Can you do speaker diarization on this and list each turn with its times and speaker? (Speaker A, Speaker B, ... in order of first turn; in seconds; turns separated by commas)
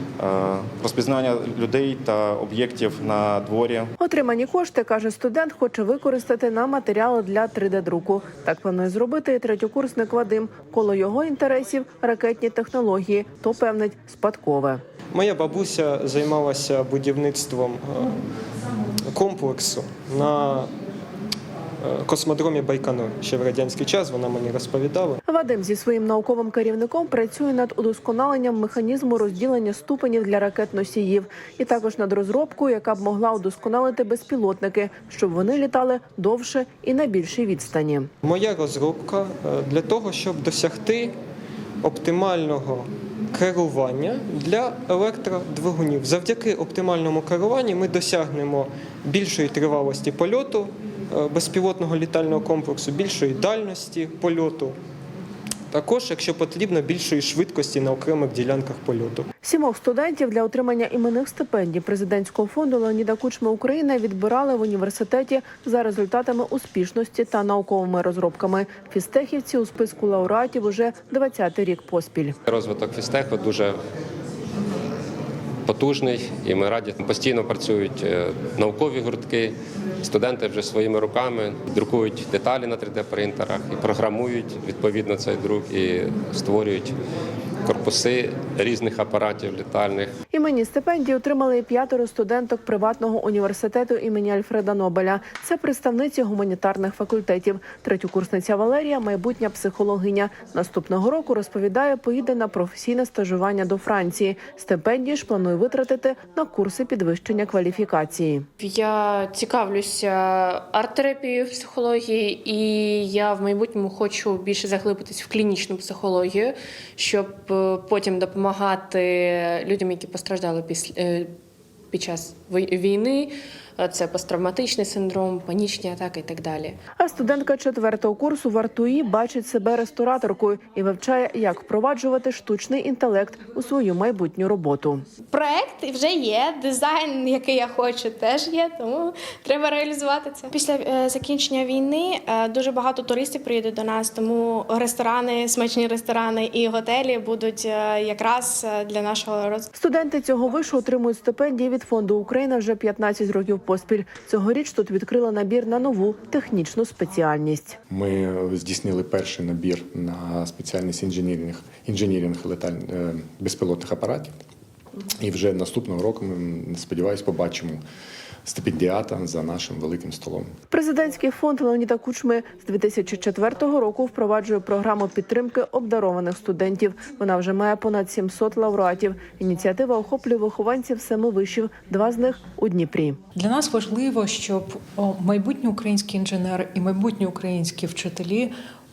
Speaker A: 0.2-3.9, Speaker B: 4.0-14.8, Speaker C: 15.1-18.1, Speaker C: 19.1-20.7, Speaker C: 21.8-25.2, Speaker B: 25.2-38.1, Speaker C: 38.2-41.1, Speaker C: 41.8-54.7, Speaker C: 55.7-59.3, Speaker B: 59.4-72.3, Speaker D: 72.5-73.8, Speaker D: 75.7-86.9, Speaker D: 87.6-90.1, Speaker B: 90.3-108.4, Speaker E: 108.6-121.3, Speaker E: 121.9-126.7, Speaker B: 127.0-135.0, Speaker F: 135.3-149.7, Speaker B: 149.7-157.8, Speaker G: 157.9-164.4, Speaker G: 165.2-167.8, Speaker G: 168.4-170.5, Speaker B: 170.7-183.2, Speaker H: 183.3-188.5